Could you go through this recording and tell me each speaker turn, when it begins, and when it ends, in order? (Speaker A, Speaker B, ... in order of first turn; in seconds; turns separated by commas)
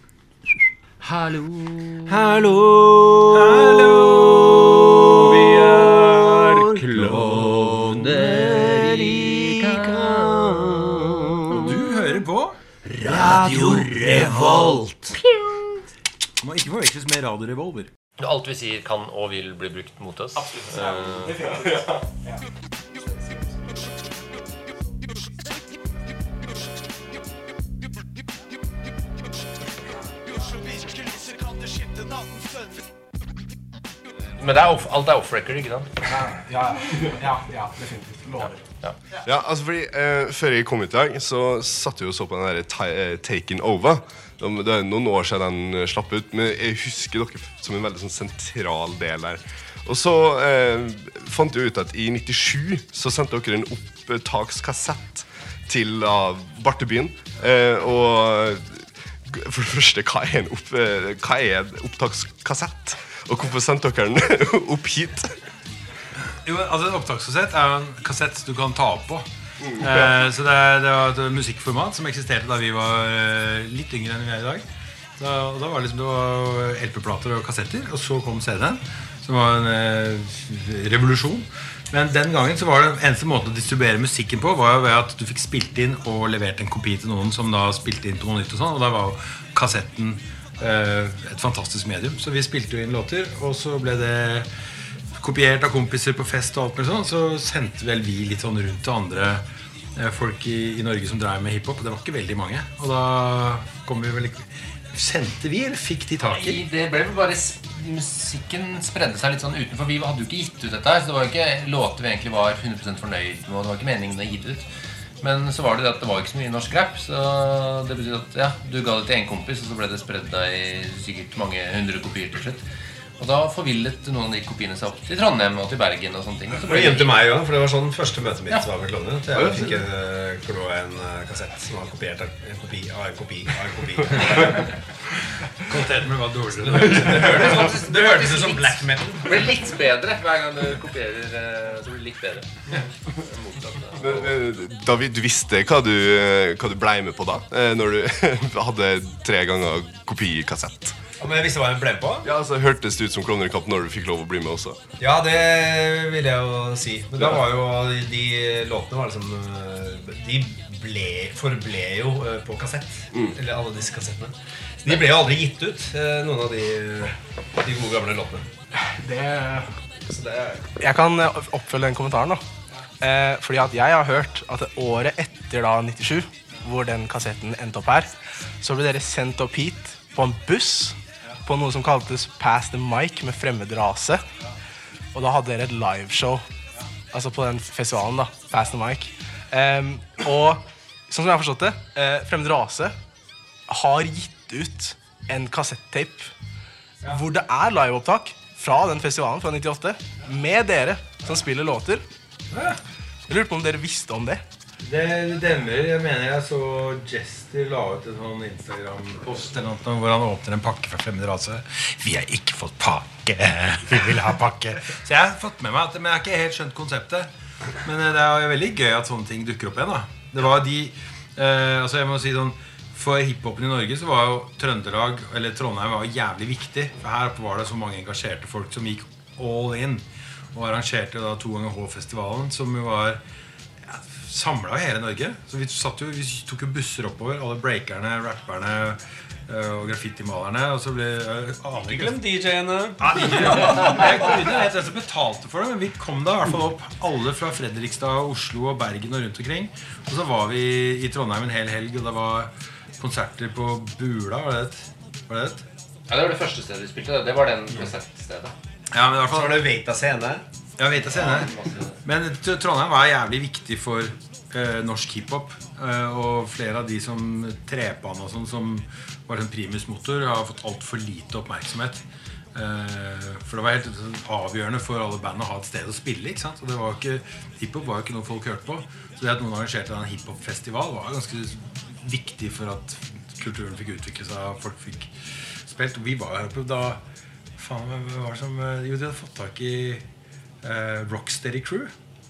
Speaker A: 1.0-2.2, Speaker B: 2.1-11.0, Speaker C: 3.3-4.6, Speaker C: 5.4-6.0, Speaker A: 6.6-10.6, Speaker C: 11.6-12.6, Speaker A: 12.9-15.6, Speaker C: 13.3-14.8, Speaker C: 16.4-17.9, Speaker A: 18.2-21.5, Speaker D: 20.5-22.1, Speaker D: 30.4-32.3, Speaker A: 34.4-35.9, Speaker D: 36.0-38.6, Speaker E: 39.2-65.4, Speaker C: 66.3-69.3, Speaker C: 69.8-74.6, Speaker C: 75.2-94.5, Speaker C: 95.2-99.4, Speaker C: 100.0-106.6, Speaker A: 106.3-114.7, Speaker A: 115.2-122.6, Speaker A: 123.2-127.2, Speaker B: 126.7-134.7, Speaker C: 135.4-137.7, Speaker B: 136.7-139.5, Speaker A: 137.0-144.3, Speaker E: 144.0-151.0, Speaker B: 151.2-152.3, Speaker E: 152.2-154.8, Speaker B: 155.0-168.5, Speaker D: 168.8-169.7, Speaker B: 170.0-170.7, Speaker D: 170.8-172.4, Speaker D: 173.0-178.1, Speaker D: 178.6-184.2, Speaker D: 185.1-186.4, Speaker D: 187.1-192.9, Speaker D: 193.7-196.3, Speaker D: 197.0-202.0, Speaker C: 202.5-202.8, Speaker D: 203.3-204.4, Speaker C: 204.8-217.3, Speaker C: 217.8-233.2, Speaker C: 233.8-242.2, Speaker B: 241.8-244.0, Speaker C: 243.0-255.7, Speaker A: 256.1-258.5, Speaker C: 258.9-259.6, Speaker B: 259.2-260.4, Speaker C: 260.8-261.5, Speaker A: 261.1-262.0, Speaker C: 262.0-272.0, Speaker C: 272.5-285.1, Speaker C: 285.6-287.0, Speaker C: 287.6-290.1, Speaker C: 290.6-291.9